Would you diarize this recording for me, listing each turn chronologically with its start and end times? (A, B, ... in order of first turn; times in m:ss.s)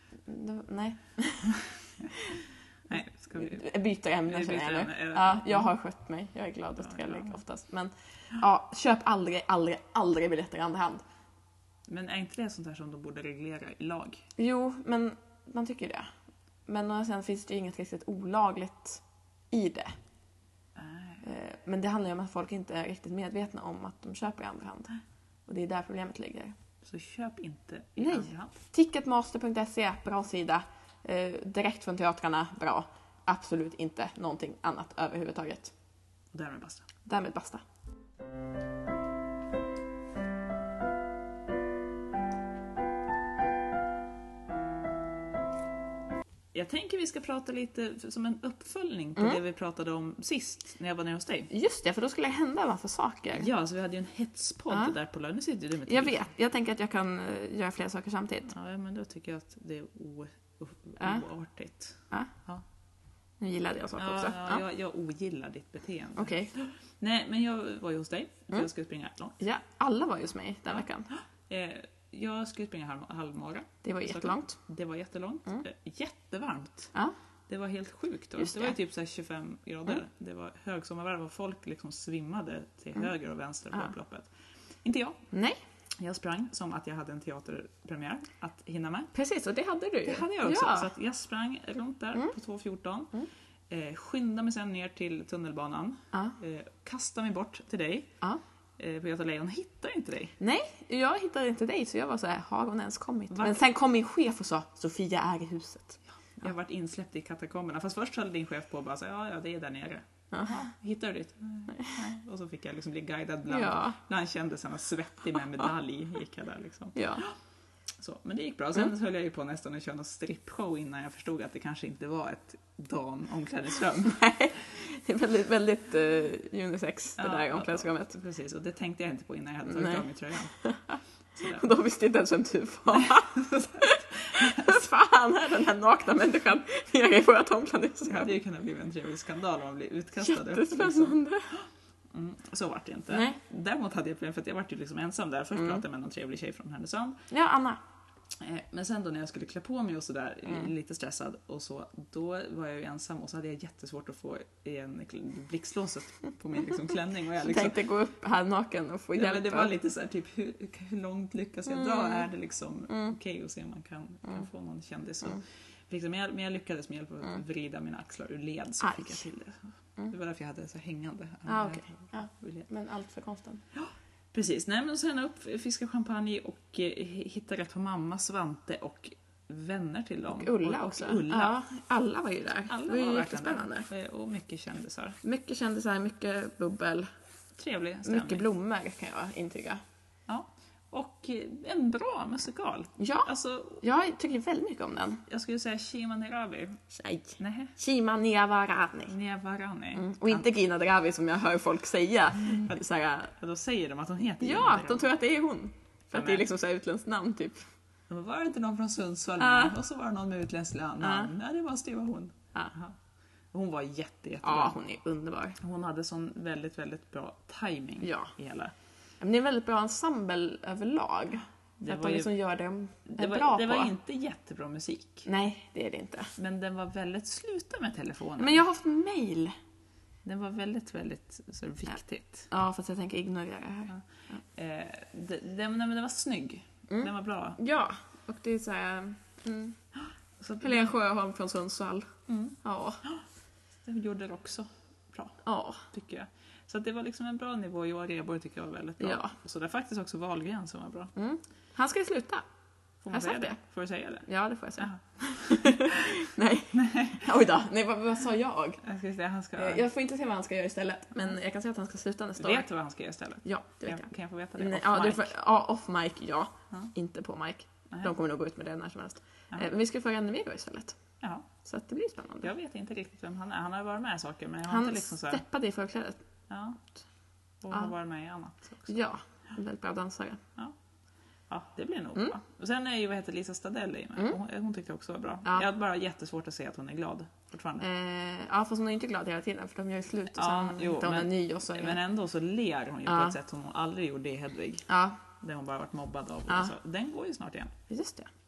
0:00.2-0:11.0 A
0:02.9-0:03.6 B
0:04.3-0:05.7 B
0:06.8-0:07.4 B
0:11.9-0:14.2 B
0:14.4-0:16.1 A
0:16.7-0:19.9 A
0:20.8-0:21.2 B
0:21.2-0:26.5 A
0:26.8-0:28.6 B
0:28.0-0:35.7 A
0:36.3-0:36.8 B
0:37.0-0:37.6 A
0:46.5-0:51.5 B
0:51.5-0:53.5 A
0:53.3-0:56.2 B
0:55.9-0:58.5 A
0:58.5-1:02.6 B
1:01.0-1:01.2 A
1:03.4-1:04.6 A
1:04.0-1:09.4 B
1:06.2-1:06.5 A
1:09.4-1:11.1 A
1:11.1-1:16.9 B
1:13.8-1:14.6 A
1:17.5-1:24.3 B
1:18.4-1:18.7 A
1:24.8-1:25.2 B
1:25.3-1:25.6 A
1:26.0-1:29.1 B
1:29.1-1:30.9 A
1:30.0-1:33.2 B
1:33.7-1:38.1 B
1:38.8-1:40.3 B
1:40.4-1:46.0 A
1:43.3-1:43.6 B
1:46.4-1:57.3 B
1:50.3-1:50.6 A
1:51.7-1:52.0 A
1:53.5-1:54.0 A
1:56.9-1:57.2 A
1:58.0-2:04.2 B
2:04.0-2:08.2 A
2:07.2-2:10.5 B
2:09.7-2:10.0 A
2:10.6-2:18.3 A
2:11.4-2:11.6 B
2:12.9-2:14.8 B
2:18.1-2:27.2 B
2:20.2-2:21.6 A
2:23.1-2:23.4 A
2:25.6-2:25.8 A
2:27.3-2:27.8 A
2:28.4-2:37.8 B
2:37.4-2:39.7 A
2:39.1-2:52.7 B
2:41.7-2:42.3 A
2:42.9-2:43.2 A
2:48.8-2:49.2 A
2:51.5-2:53.6 A
2:53.7-3:01.6 B
3:00.3-3:03.9 A
3:02.7-3:05.2 B
3:05.2-3:07.1 A
3:07.6-3:08.4 B
3:08.0-3:09.8 A
3:10.3-3:13.8 B
3:13.0-3:15.2 A
3:15.3-3:16.8 B
3:16.9-3:19.1 A
3:17.4-3:17.7 B
3:19.1-3:20.4 B
3:19.9-3:23.3 A
3:23.4-3:25.1 B
3:24.4-3:27.6 A
3:26.1-3:26.4 B
3:28.1-3:33.0 B
3:29.4-3:29.8 A
3:31.0-3:31.3 A
3:33.5-3:34.8 B
3:34.4-3:35.6 A
3:35.6-3:38.7 B
3:38.0-3:38.3 A
3:39.2-3:43.9 A
3:41.8-3:42.3 B
3:43.1-3:45.3 B
3:45.2-3:46.3 A
3:46.4-3:48.6 B
3:48.4-3:49.6 A
3:50.2-3:52.5 B
3:52.5-3:54.4 A
3:54.5-3:57.6 B
3:56.9-3:59.8 A
4:00.4-4:00.8 B
4:00.6-4:02.1 A
4:02.3-4:03.2 B
4:02.6-4:03.0 A
4:03.8-4:05.4 B
4:05.4-4:05.8 A
4:05.9-4:11.1 B
4:09.0-4:09.3 A
4:11.2-4:12.4 A
4:13.0-4:14.3 B
4:13.1-4:13.6 A
4:14.2-4:18.8 A
4:14.8-4:17.3 B
4:18.8-4:19.8 B
4:19.6-4:22.7 A
4:22.4-4:25.3 B
4:23.4-4:31.0 A
4:31.2-4:31.5 B
4:31.6-4:32.5 A
4:32.4-4:35.4 B
4:34.7-4:36.2 A
4:36.5-4:36.8 B
4:37.6-4:38.9 B
4:38.9-4:40.4 A
4:41.5-4:47.8 B
4:47.8-4:52.0 A
4:50.3-4:54.8 B
4:53.1-4:53.3 A
4:54.9-4:55.2 A
4:55.4-4:57.7 B
4:57.9-4:58.3 A